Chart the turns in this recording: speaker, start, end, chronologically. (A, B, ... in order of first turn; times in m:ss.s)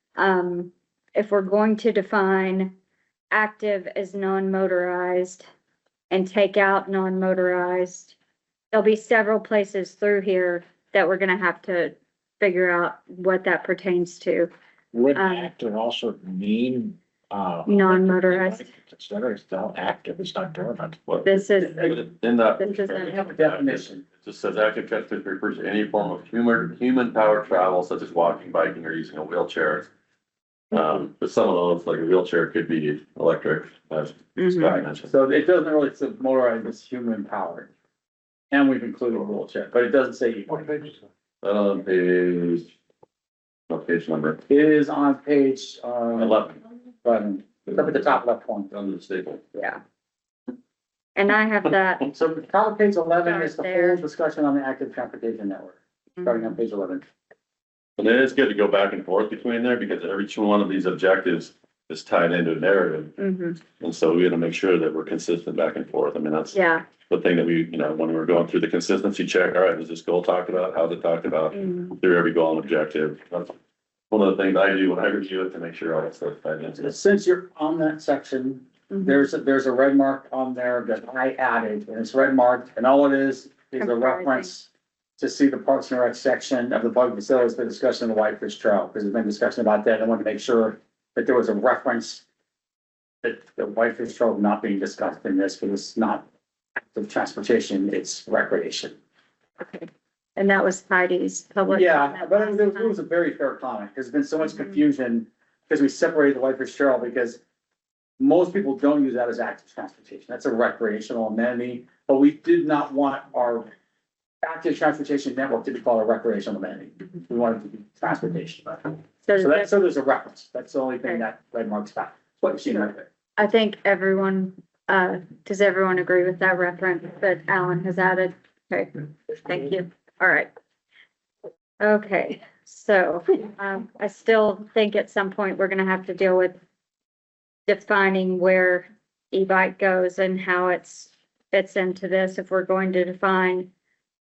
0:00.2-0:02.7 A
0:03.3-0:05.4 A
0:06.1-0:08.1 A
0:08.7-0:14.5 A
0:14.9-0:21.0 B
0:15.1-0:15.5 A
0:17.6-0:18.7 A
0:21.1-0:29.9 C
0:21.2-0:22.0 A
0:22.6-0:23.2 A
0:23.0-0:24.0 D
0:30.7-0:35.1 C
0:34.4-0:34.8 A
0:34.6-0:37.7 D
0:38.5-0:40.9 D
0:39.1-0:39.4 C
0:41.4-0:42.7 C
0:43.7-0:44.4 C
0:44.5-0:46.5 D
0:46.2-0:46.6 C
0:47.0-0:48.7 D
0:48.7-0:49.4 C
0:49.5-0:49.8 A
0:51.1-0:52.1 A
0:52.1-0:57.0 D
0:53.2-0:54.0 A
0:56.2-0:56.4 A
0:58.0-1:03.2 C
1:03.2-1:03.6 A
1:03.8-1:13.5 C
1:06.5-1:06.9 A
1:11.5-1:11.9 A
1:14.1-1:16.9 C
1:16.8-1:32.2 D
1:18.9-1:19.2 A
1:23.8-1:24.5 A
1:33.2-1:36.2 D
1:36.8-1:39.0 D
1:39.6-1:43.0 A
1:41.7-1:47.4 D
1:48.2-1:53.7 D
1:54.4-2:03.1 D
1:59.2-1:59.7 A
2:03.4-2:10.5 A
2:11.8-2:16.6 A
2:17.7-2:23.7 A